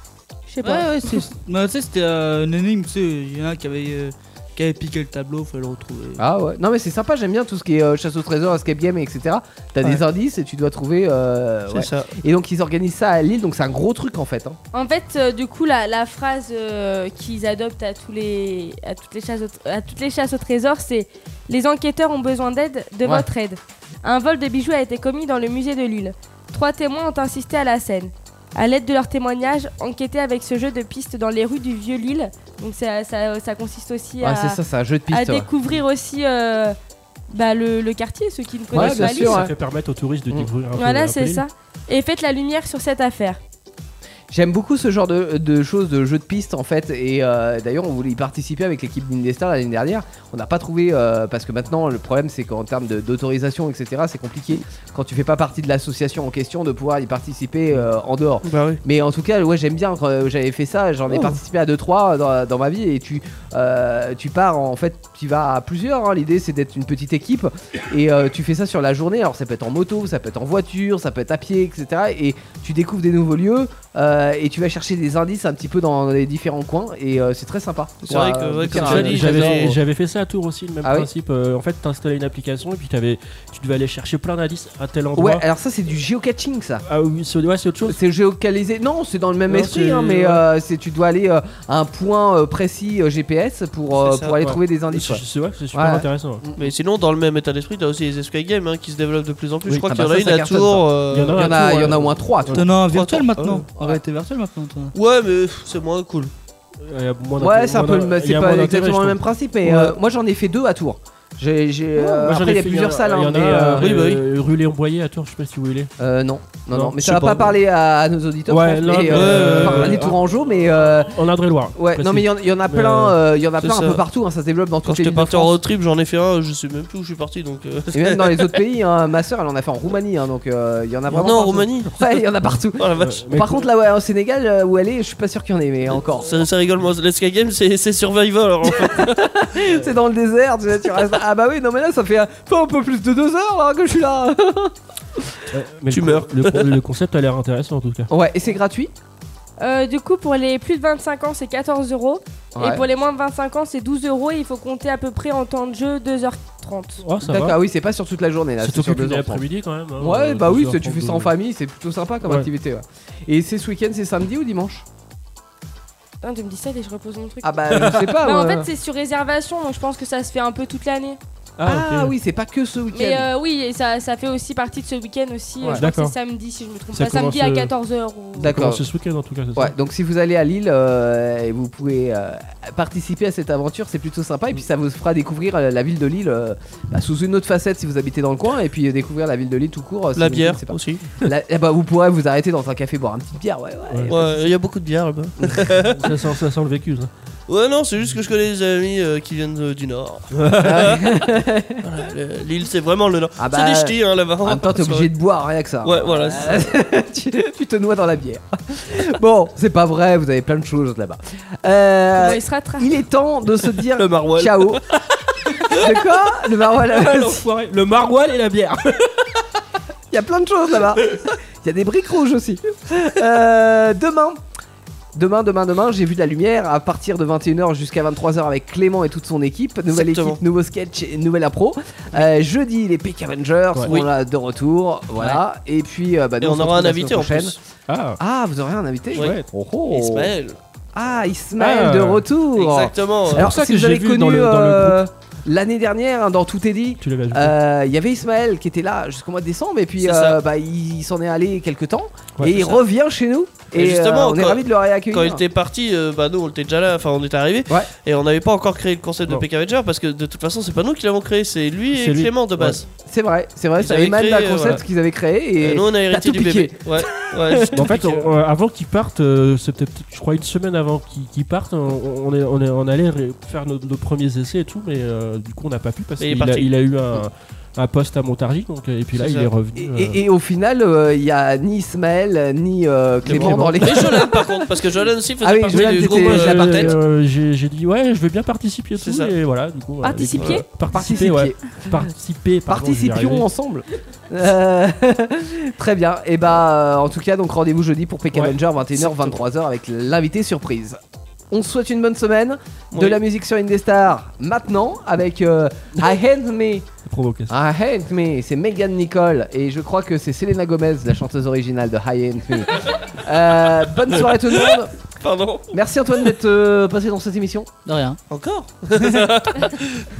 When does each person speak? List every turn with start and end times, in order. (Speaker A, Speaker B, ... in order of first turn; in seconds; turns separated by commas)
Speaker A: 0.6-1.2, Speaker B: 0.6-6.2, Speaker C: 6.2-14.6, Speaker D: 11.7-12.1, Speaker A: 14.7-34.6, Speaker C: 34.2-35.5, Speaker A: 35.1-36.8, Speaker A: 37.3-39.4, Speaker C: 38.7-39.5, Speaker E: 38.7-41.4, Speaker A: 40.8-43.4, Speaker C: 44.3-79.7, Speaker D: 58.4-58.8, Speaker D: 78.0-79.8, Speaker E: 78.7-85.4, Speaker C: 80.8-81.1, Speaker C: 85.1-86.8, Speaker E: 86.8-88.0, Speaker C: 87.9-95.2, Speaker E: 89.5-90.4, Speaker D: 94.0-94.3, Speaker E: 94.4-96.4, Speaker C: 95.7-96.7, Speaker D: 96.6-101.6, Speaker C: 99.9-102.6, Speaker E: 101.1-102.7, Speaker B: 102.5-104.9, Speaker D: 102.8-103.6, Speaker C: 103.8-104.0, Speaker D: 104.9-106.3, Speaker E: 106.8-109.2, Speaker C: 107.4-113.9, Speaker D: 109.7-109.9, Speaker E: 112.0-115.9, Speaker D: 113.8-114.2, Speaker C: 116.0-121.1, Speaker D: 117.0-117.5, Speaker E: 118.5-120.2, Speaker B: 119.1-120.1, Speaker E: 120.9-123.2, Speaker C: 121.8-125.6, Speaker D: 123.6-124.0, Speaker D: 124.8-128.6, Speaker C: 127.9-136.4, Speaker D: 131.1-132.2, Speaker D: 132.8-133.2, Speaker E: 133.0-133.5, Speaker D: 136.2-139.4, Speaker C: 138.7-145.3, Speaker E: 145.5-148.1, Speaker D: 145.9-146.8, Speaker C: 148.1-148.9, Speaker A: 149.6-157.0, Speaker C: 152.6-152.8, Speaker E: 157.0-157.6, Speaker C: 157.2-159.4, Speaker E: 158.6-161.3, Speaker C: 160.0-164.8, Speaker A: 166.2-171.2, Speaker C: 167.4-168.7, Speaker E: 167.8-168.0, Speaker E: 171.6-172.1, Speaker C: 171.6-173.3, Speaker A: 172.9-178.6, Speaker C: 175.6-175.8, Speaker E: 175.7-176.1, Speaker E: 176.9-177.7, Speaker C: 178.4-178.8, Speaker E: 178.4-179.7, Speaker C: 179.5-194.2, Speaker D: 190.2-191.2, Speaker D: 194.1-196.1, Speaker C: 195.4-195.7, Speaker E: 195.9-197.1, Speaker D: 197.5-201.1, Speaker E: 200.3-200.8, Speaker C: 200.6-201.8, Speaker D: 201.8-205.1, Speaker C: 203.4-214.8, Speaker D: 205.8-206.7, Speaker A: 212.1-212.9, Speaker D: 213.8-214.8, Speaker C: 215.7-217.5, Speaker E: 217.1-219.1, Speaker C: 220.1-224.4, Speaker C: 225.1-237.6, Speaker D: 229.9-230.4, Speaker D: 236.4-237.6, Speaker E: 237.9-238.2, Speaker C: 238.2-240.3, Speaker E: 239.1-239.4, Speaker D: 239.9-240.6, Speaker C: 240.9-255.4, Speaker E: 241.6-242.2, Speaker D: 242.6-243.5, Speaker E: 243.3-245.0, Speaker E: 247.0-247.5, Speaker D: 250.0-250.4, Speaker D: 252.4-252.8, Speaker D: 253.7-262.8, Speaker E: 261.9-262.8, Speaker C: 263.1-267.9, Speaker D: 263.8-264.8, Speaker D: 265.6-268.2, Speaker E: 267.7-280.2, Speaker D: 276.2-276.7, Speaker D: 279.1-279.5, Speaker C: 279.8-284.4, Speaker D: 283.2-286.9, Speaker E: 283.3-284.2, Speaker C: 285.4-287.0, Speaker E: 285.7-293.4, Speaker D: 289.0-289.3, Speaker A: 290.0-290.6, Speaker D: 290.3-290.6, Speaker C: 290.9-292.1, Speaker C: 292.7-301.0, Speaker C: 301.5-306.9, Speaker D: 302.9-303.2, Speaker E: 307.1-307.5, Speaker C: 307.5-314.9, Speaker D: 314.1-315.7, Speaker C: 315.7-317.7, Speaker B: 317.9-318.2, Speaker D: 318.3-320.1